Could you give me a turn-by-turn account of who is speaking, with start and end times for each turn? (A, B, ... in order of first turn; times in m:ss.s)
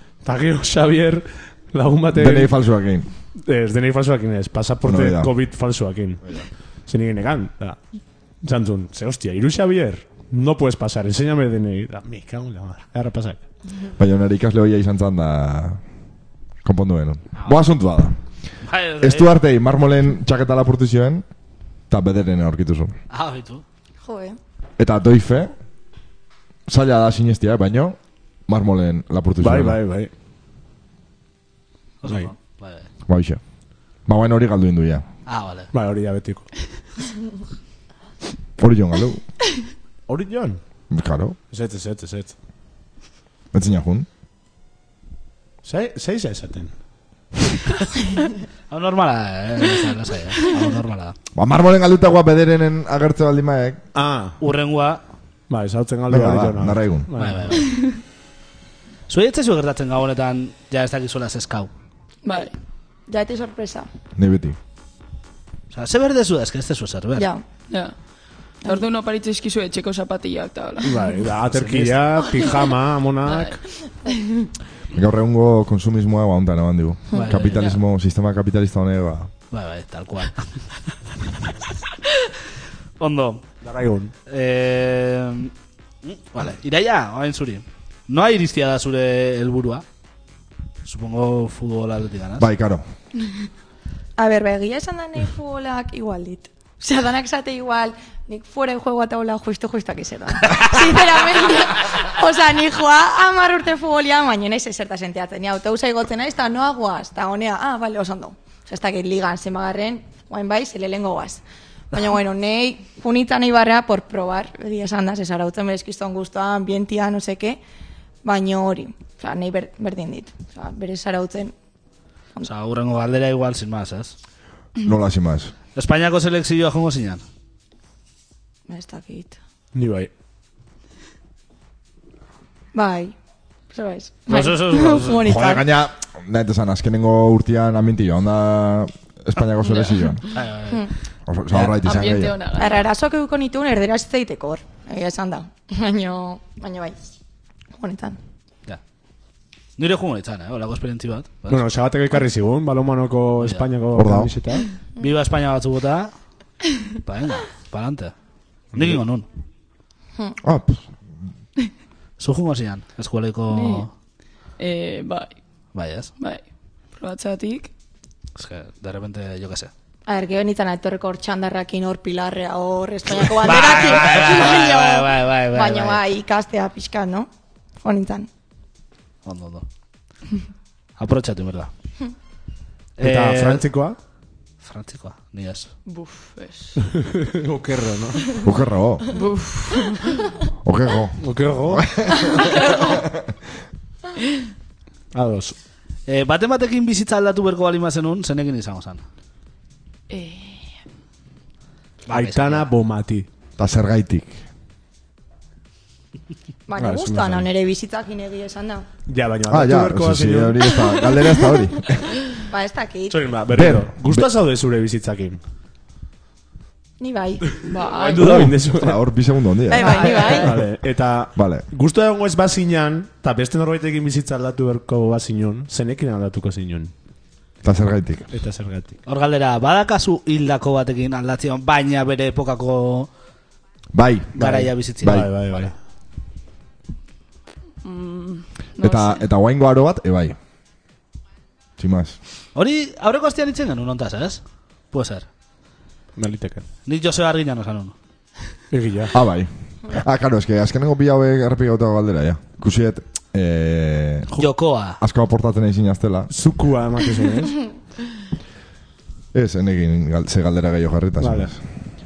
0:00.2-0:02.5 A
0:02.1-0:03.1 B
0:03.4-0:06.3 A
0:04.8-0:05.3 B
0:06.9-0:07.8 A
0:08.4-0:13.4 A
0:14.0-0:15.8 B
0:16.6-0:18.2 B
0:18.6-0:19.3 C
0:19.0-0:21.2 B
0:21.9-0:22.9 B
0:23.1-0:23.6 C
0:24.0-0:24.4 D
0:24.8-0:25.5 B
0:26.7-0:28.0 B
0:28.5-0:29.8 B
0:29.4-0:30.1 A
0:32.0-0:32.9 C
0:33.1-0:33.4 B
0:34.0-0:35.0 B
0:35.2-0:35.7 C
0:35.7-0:36.5 A
0:38.6-0:39.2 B
0:40.1-0:40.6 A
0:40.9-0:41.4 B
0:41.5-0:42.3 A
0:43.5-0:44.1 B
0:45.6-0:46.7 A
0:48.7-0:51.2 C
0:51.4-0:53.8 B
0:53.9-0:54.4 A
0:54.4-0:55.0 C
0:55.5-0:57.6 A
0:56.1-0:57.1 B
0:57.2-0:57.8 C
0:59.1-1:01.7 C
1:02.2-1:02.5 E
1:03.1-1:03.9 D
1:04.2-1:04.6 B
1:05.7-1:07.3 C
1:07.2-1:07.4 D
1:07.7-1:07.9 E
1:08.6-1:11.0 E
1:10.8-1:13.6 A
1:11.5-1:12.0 C
1:13.2-1:14.3 E
1:14.9-1:19.3 B
1:17.1-1:17.6 C
1:19.5-1:20.6 C
1:23.0-1:23.4 C
1:23.6-1:24.1 A
1:24.3-1:25.5 C
1:26.0-1:29.8 C
1:30.8-1:32.5 C
1:32.4-1:32.8 B
1:34.2-1:57.6 D
1:58.2-2:01.5 D
2:02.4-2:04.1 C
2:04.8-2:05.5 B
2:05.8-2:07.2 C
2:08.7-2:09.4 D
2:09.7-2:10.1 A
2:12.7-2:13.1 D
2:13.7-2:15.7 D
2:14.3-2:15.3 C
2:15.2-2:20.2 B
2:20.3-2:20.9 C
2:21.3-2:22.4 B
2:21.8-2:22.9 E
2:22.6-2:27.0 D
2:27.7-2:28.2 D
2:29.8-2:31.6 C
2:31.5-2:34.7 A
2:33.4-2:33.7 C
2:33.9-2:34.3 B
2:35.0-2:36.1 C
2:37.0-2:38.1 C
2:38.7-2:39.0 A
2:38.7-2:39.2 C
2:40.4-2:40.9 B
2:42.2-2:43.9 C
2:43.5-2:43.9 E
2:44.6-2:45.3 E
2:45.7-2:46.1 C
2:46.2-2:46.4 E
2:47.0-2:47.7 E
2:48.3-2:49.7 C
2:50.1-2:57.3 D
2:53.4-2:56.0 C
2:57.8-2:58.3 D
2:59.2-2:59.6 C
3:01.0-3:01.7 C
3:03.0-3:03.6 C
3:03.0-3:04.0 A
3:04.6-3:05.7 C
3:05.8-3:06.8 E
3:06.9-3:08.4 A
3:08.4-3:09.1 B
3:09.1-3:10.3 E
3:10.6-3:13.2 B
3:11.2-3:11.9 A
3:12.4-3:12.8 E
3:15.1-3:15.5 A
3:16.1-3:19.0 C
3:20.1-3:20.7 E
3:22.1-3:22.7 C
3:22.1-3:23.3 A
3:23.6-3:24.3 B
3:26.7-3:28.9 D
3:26.8-3:27.5 A
3:29.1-3:30.8 A
3:29.5-3:32.2 B
3:32.5-3:33.2 D
3:33.1-3:35.4 A
3:33.5-3:34.3 B
3:37.0-3:37.4 D
3:37.6-3:39.0 A
3:37.7-3:38.4 E
3:38.2-3:40.6 B
3:39.7-3:40.5 D
3:39.8-3:46.9 A
3:41.3-3:41.6 B
3:47.6-3:48.3 B
3:48.3-3:49.0 A
3:49.0-3:53.1 C
3:53.9-3:54.3 B
3:54.3-3:55.7 C
3:54.4-3:55.7 A
3:55.0-3:55.3 B
3:57.8-3:59.3 E
3:58.8-4:00.4 B
4:01.8-4:02.2 B
4:02.5-4:05.3 C
4:06.1-4:06.6 A
4:06.8-4:07.9 C
4:08.7-4:09.2 A
4:09.1-4:16.3 B
4:14.3-4:15.0 C
4:16.3-4:17.6 A
4:19.3-4:21.6 B
4:21.2-4:21.5 A